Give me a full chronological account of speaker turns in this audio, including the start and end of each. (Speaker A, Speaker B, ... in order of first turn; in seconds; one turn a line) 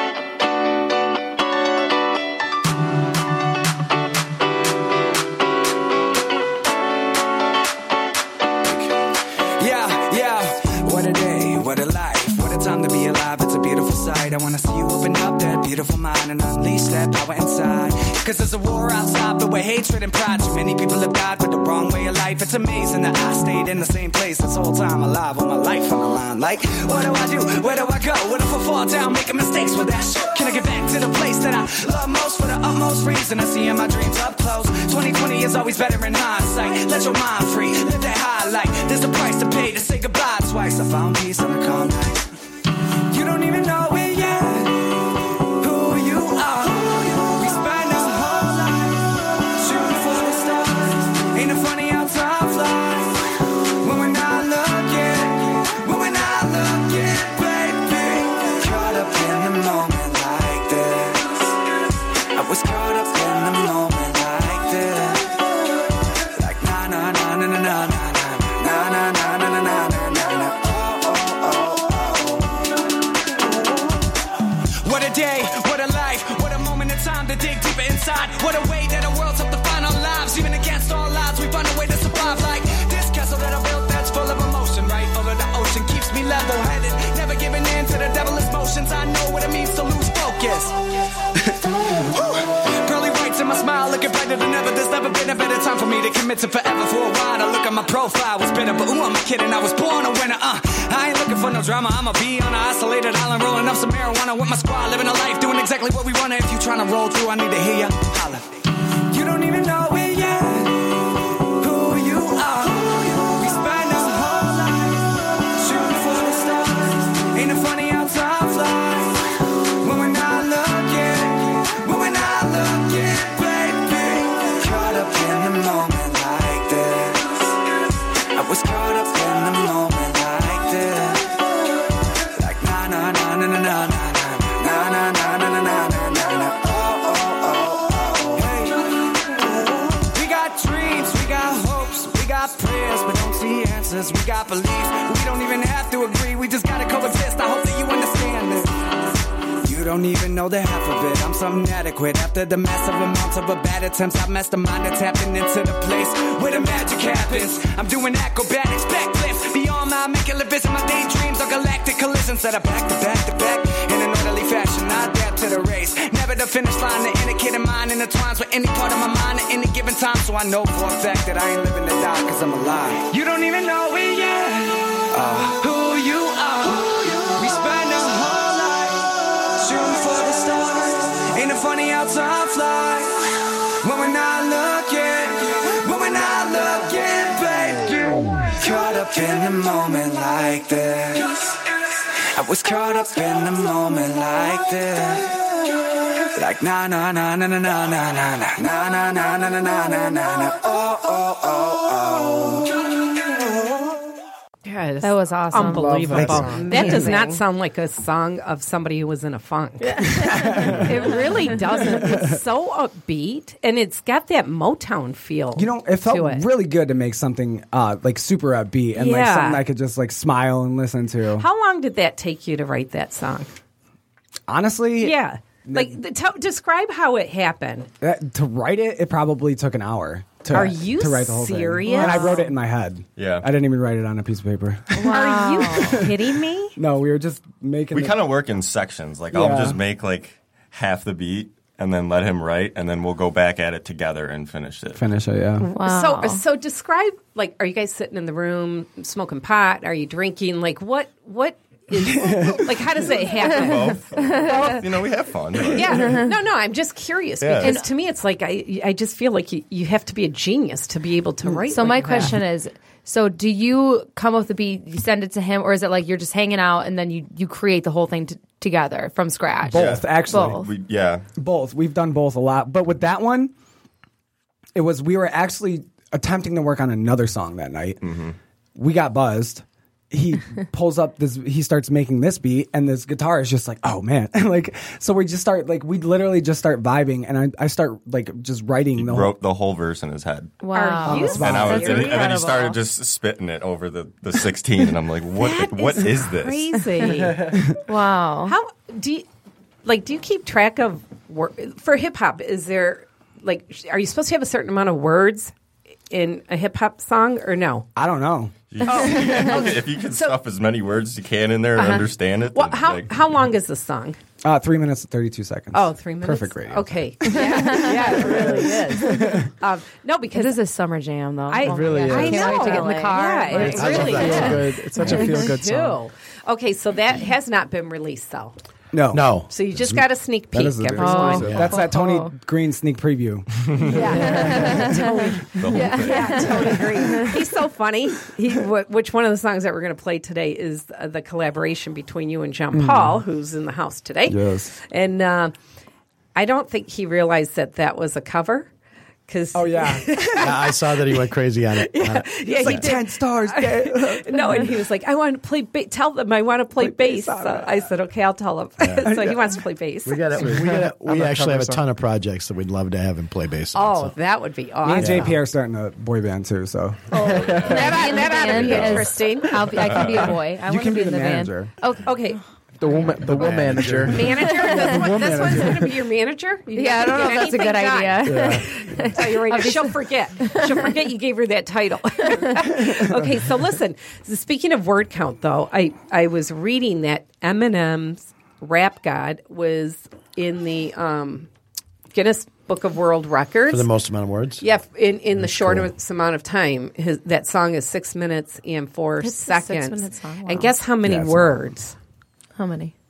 Speaker A: 8.6-8.9
Speaker A: 9.6-42.3
Speaker A: 43.1-44.9
Speaker A: 45.6-53.2
Speaker A: 53.8-61.5
Speaker A: 62.4-65.4
Speaker A: 66.3-72.6
Speaker A: 74.9-90.7
Speaker A: 91.5-108.4
Speaker A: 109.1-110.9
Speaker A: 111.6-119.2
Speaker A: 119.8-127.5
Speaker A: 128.3-131.4
Speaker A: 132.4-148.8
Speaker A: 149.6-191.6
Speaker A: 192.3-195.4
Speaker A: 196.3-202.7
Speaker B: 204.7-216.5
Speaker C: 205.0-207.4
Speaker D: 205.6-207.0
Speaker E: 210.1-212.4
Speaker E: 215.6-221.5
Speaker B: 218.9-219.7
Speaker B: 221.4-223.5
Speaker E: 224.5-225.2
Speaker B: 225.0-227.9
Speaker E: 225.7-226.0
Speaker E: 228.0-236.1
Speaker B: 230.5-232.5
Speaker C: 231.9-232.4
Speaker F: 233.2-233.5
Speaker C: 234.9-236.0
Speaker B: 235.1-236.8
Speaker E: 236.8-238.2
Speaker F: 237.9-245.0
Speaker E: 239.3-239.8
Speaker E: 244.9-245.7
Speaker C: 245.6-246.4
Speaker B: 245.8-254.9
Speaker E: 252.0-252.8
Speaker F: 253.3-256.3
Speaker C: 254.2-254.8
Speaker B: 255.7-262.4
Speaker F: 257.4-257.8
Speaker C: 257.6-257.9
Speaker C: 261.7-270.7
Speaker E: 269.7-270.6
Speaker F: 269.7-271.2
Speaker E: 271.4-273.5
Speaker E: 274.8-278.0
Speaker F: 278.0-278.4
Speaker E: 278.8-289.4
Speaker F: 288.9-296.8
Speaker C: 290.6-292.8
Speaker B: 290.7-292.6
Speaker E: 291.1-292.0
Speaker B: 295.4-297.6
Speaker C: 297.9-298.6
Speaker B: 298.5-299.2
Speaker B: 299.9-305.5
Speaker B: 306.1-307.9
Speaker E: 308.0-308.5
Speaker F: 308.7-313.1
Speaker B: 308.9-310.4
Speaker B: 311.8-314.2
Speaker E: 314.4-319.5
Speaker B: 315.7-320.6
Speaker C: 317.3-317.9
Speaker C: 320.3-324.5
Speaker B: 321.5-328.6
Speaker D: 321.6-322.9
Speaker G: 322.0-322.4
Speaker D: 323.5-326.0
Speaker G: 323.6-324.8
Speaker E: 328.9-329.4
Speaker G: 329.1-330.0
Speaker B: 329.5-331.6
Speaker E: 330.5-335.4
Speaker C: 331.0-332.3
Speaker G: 331.4-331.7
Speaker F: 333.8-334.0
Speaker B: 333.9-345.5
Speaker C: 334.0-337.3
Speaker F: 335.6-336.7
Speaker E: 342.7-343.2
Speaker E: 344.3-344.7
Speaker B: 346.4-348.7
Speaker B: 349.3-360.3
Speaker E: 349.5-350.4
Speaker G: 350.4-352.9
Speaker E: 352.5-354.8
Speaker E: 356.8-357.8
Speaker G: 358.8-359.1
Speaker E: 359.0-359.5
Speaker G: 360.1-364.2
Speaker D: 360.3-361.9
Speaker B: 363.7-365.4
Speaker E: 364.8-367.3
Speaker G: 364.9-365.3
Speaker C: 367.2-372.2
Speaker B: 367.3-369.7
Speaker G: 368.7-368.9
Speaker E: 370.0-371.7
Speaker B: 372.0-372.4
Speaker D: 372.8-374.4
Speaker G: 373.2-375.4
Speaker B: 374.1-391.5
Speaker C: 374.6-374.9
Speaker E: 374.6-375.9
Speaker C: 376.7-380.9
Speaker G: 378.3-378.6
Speaker C: 382.2-382.6
Speaker B: 392.1-393.9
Speaker G: 393.7-394.6
Speaker B: 394.6-401.9
Speaker G: 395.4-395.9
Speaker C: 399.2-400.7
Speaker E: 401.1-401.4
Speaker C: 402.6-402.9